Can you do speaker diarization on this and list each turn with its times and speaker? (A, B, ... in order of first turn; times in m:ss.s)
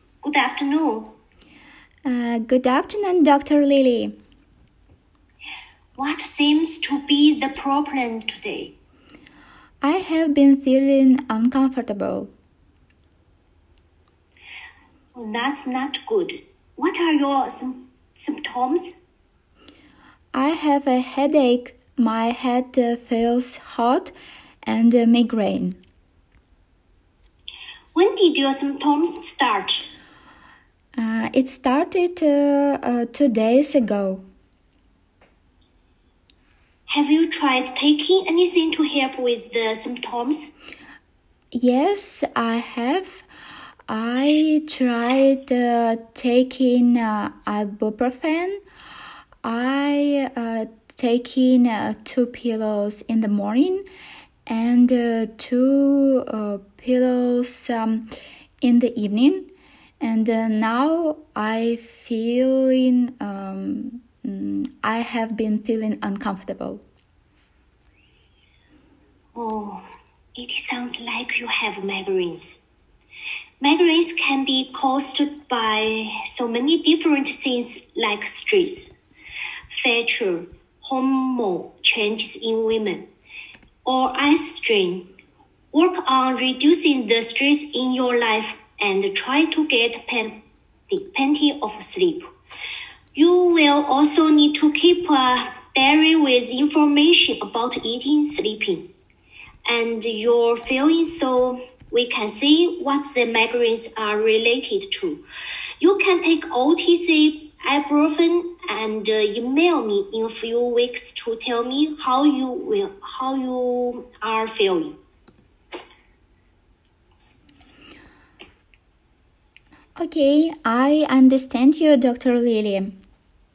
0:00.2-0:01.2 A
0:02.0-0:04.1 B
0:06.0-0:08.8 A
0:09.8-0:12.3 B
0:15.2-0:19.0 A
0:20.3-0:25.8 B
0:28.0-0:29.9 A
0:31.0-0:34.2 B
0:36.9-0:40.5 A
0:41.5-0:43.2 B
0:43.9-0:48.6 B
0:49.4-0:53.8 B
0:54.5-0:58.1 B
0:58.6-0:59.5 B
1:00.0-1:06.8 B
1:09.4-1:09.8 A
1:10.4-1:12.6 A
1:13.6-1:19.0 A
1:19.7-1:23.1 A
1:23.8-1:25.1 A
1:25.7-1:32.3 A
1:33.2-1:38.9 A
1:39.7-1:45.2 A
1:45.8-1:55.0 A
2:00.0-2:02.9 B